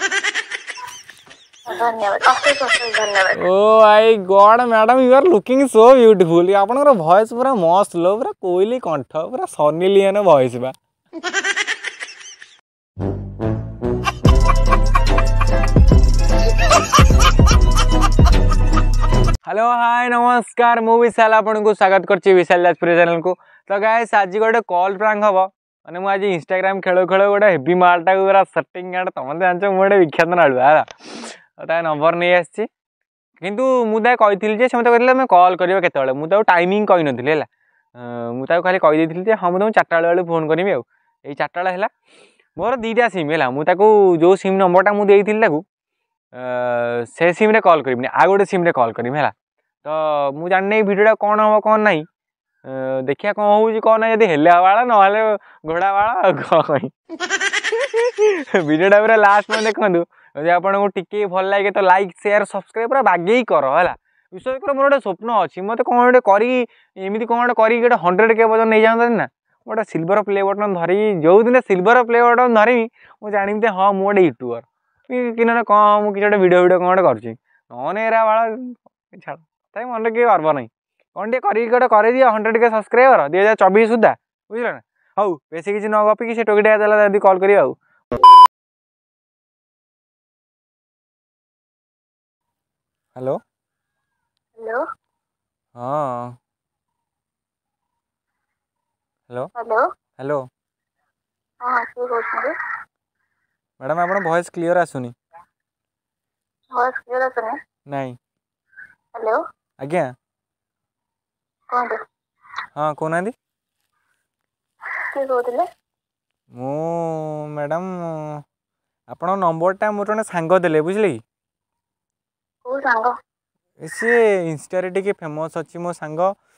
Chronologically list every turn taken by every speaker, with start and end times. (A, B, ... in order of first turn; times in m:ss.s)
0:01.7-0:03.4 A
0:03.4-0:10.7 B
0:19.5-0:32.7 B
0:33.4-0:41.9 B
0:42.6-0:45.6 B
0:46.4-0:49.3 B
0:49.8-0:52.0 B
0:52.6-0:56.9 B
0:57.7-1:27.8 B
1:35.8-1:36.4 B
1:39.6-1:39.8 A
1:40.2-1:40.4 B
1:41.6-1:42.5 A
1:43.8-1:45.1 B
1:46.8-1:47.6 A
1:47.9-1:48.2 B
1:49.8-1:50.1 B
1:51.7-1:52.0 A
1:52.8-1:53.3 B
1:55.1-1:55.7 A
1:56.5-1:58.4 B
1:59.1-2:01.2 B
2:02.6-2:03.1 A
2:03.8-2:06.3 B